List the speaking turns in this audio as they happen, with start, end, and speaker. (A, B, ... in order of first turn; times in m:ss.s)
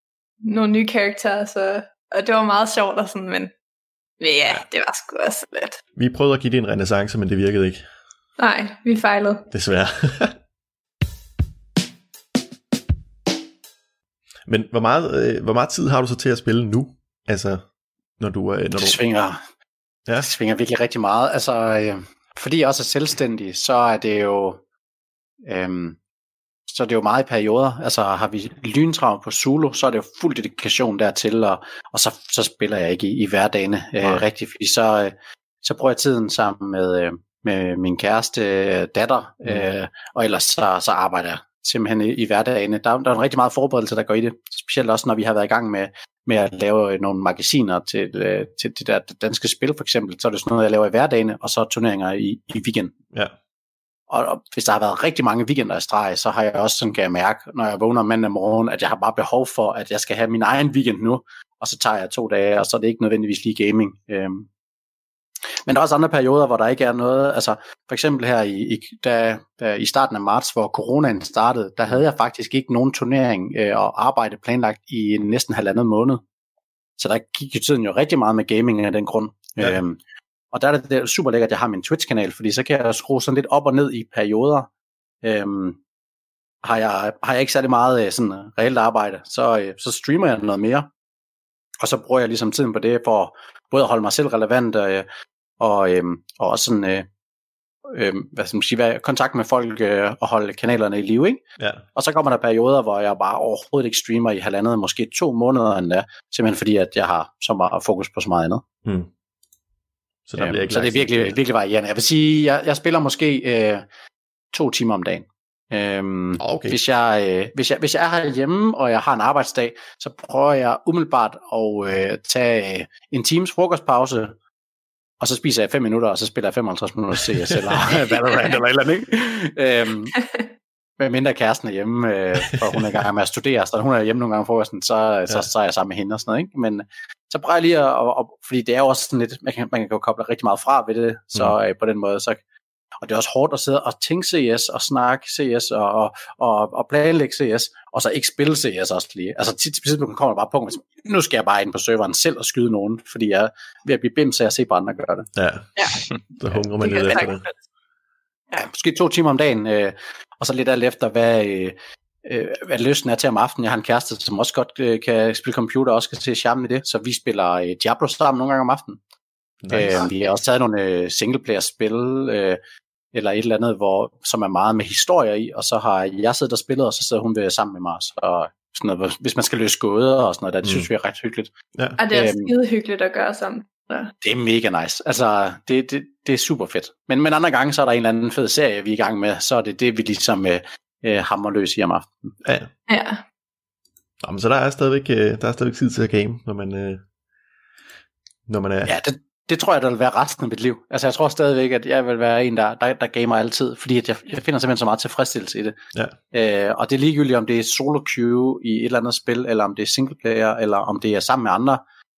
0:00.4-0:03.5 A
0:04.2-0:05.8 A
0:06.0-0:07.8 B
0:08.4-0:09.5 A
0:09.5-0:10.4 B
0:14.5-0:17.6 B
0:18.2-0:19.0 B
0:18.8-0:19.4 C
0:20.2-0:24.6 C
0:25.4-0:26.0 C
0:26.7-0:52.9 C
0:54.1-1:04.5 C
1:05.7-1:16.2 C
1:17.0-1:20.0 C
1:20.5-1:24.7 C
1:25.2-1:25.8 C
1:26.6-1:30.9 C
1:31.8-1:35.1 C
1:35.6-1:37.1 C
1:37.9-1:41.4 C
1:41.6-1:41.8 B
1:42.0-1:48.6 C
1:48.8-1:49.1 B
1:50.3-1:51.4 B
1:50.4-1:53.8 C
1:54.5-2:04.4 C
1:56.4-1:56.8 B
2:05.2-2:10.2 C
2:10.2-2:10.4 A
2:11.0-2:22.4 C
2:23.0-2:35.3 C
2:35.4-2:37.5 B
2:35.8-2:36.0 A
2:36.8-2:37.5 A
2:38.6-2:49.0 C
2:49.6-2:50.1 B
2:49.7-2:52.6 C
2:53.1-3:01.5 C
3:00.6-3:00.9 B
3:02.0-3:04.1 A
3:02.1-3:02.5 C
3:04.2-3:12.4 C
3:12.9-3:13.2 A
3:14.2-3:17.0 B
3:18.5-3:19.0 B
3:18.8-3:25.8 C
3:26.3-3:31.8 C